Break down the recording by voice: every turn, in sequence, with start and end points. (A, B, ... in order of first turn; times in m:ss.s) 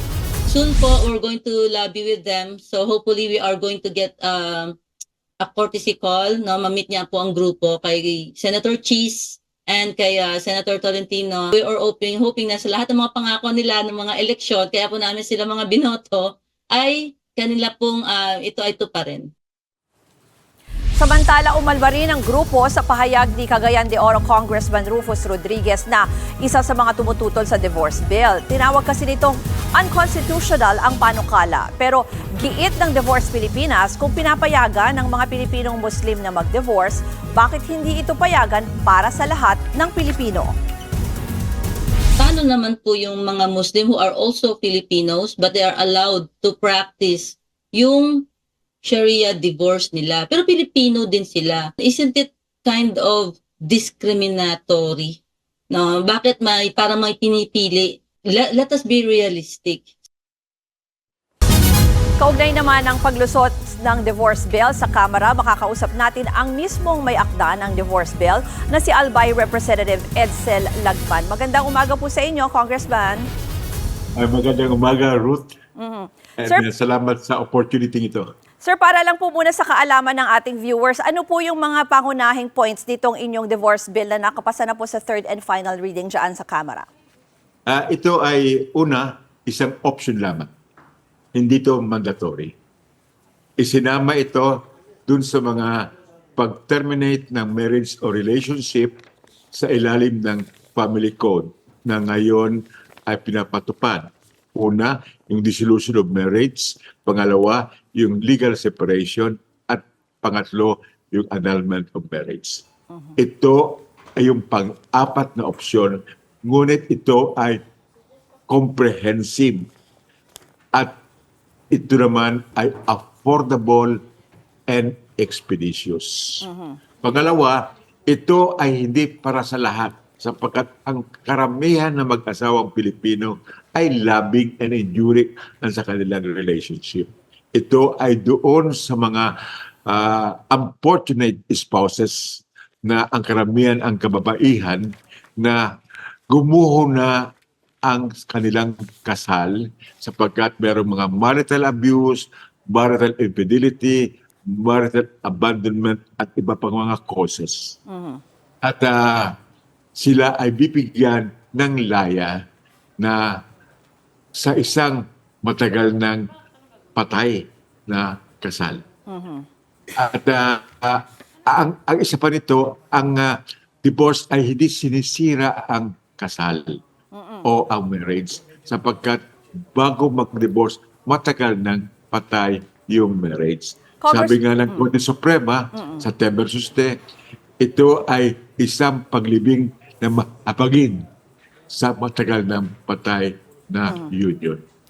0:00.5-0:04.8 A
0:05.4-0:19.3 A
0:21.0-0:40.5 B
0:42.2-0:48.3 A
0:48.8-0:59.9 A
1:02.2-1:13.3 B
1:14.2-1:15.6 C
1:15.8-1:16.6 B
1:16.4-1:18.3 C
1:18.6-1:26.9 B
1:27.7-1:30.5 C
1:31.4-1:32.6 C
1:33.6-1:39.0 C
1:39.5-1:52.6 C
1:53.2-1:57.6 C
1:58.5-1:59.7 C
2:01.7-2:04.0 C
2:04.7-2:06.5 C
2:06.4-2:06.8 B
2:07.0-2:19.3 C
2:19.9-2:25.7 C
2:26.3-2:27.3 C
2:27.9-2:37.8 C
2:37.9-2:38.2 B
2:38.6-2:39.4 C
2:40.0-2:42.4 C
2:43.0-2:43.4 C
2:44.3-2:46.3 C
2:47.0-2:48.8 C
2:49.1-2:49.4 B
2:50.0-2:56.8 C
2:57.1-2:57.4 B
2:57.4-2:59.2 C
2:59.7-3:07.0 C
3:04.0-3:04.9 B
3:05.8-3:06.0 B
3:07.6-3:11.1 C
3:11.7-3:14.6 C
3:13.9-3:14.1 B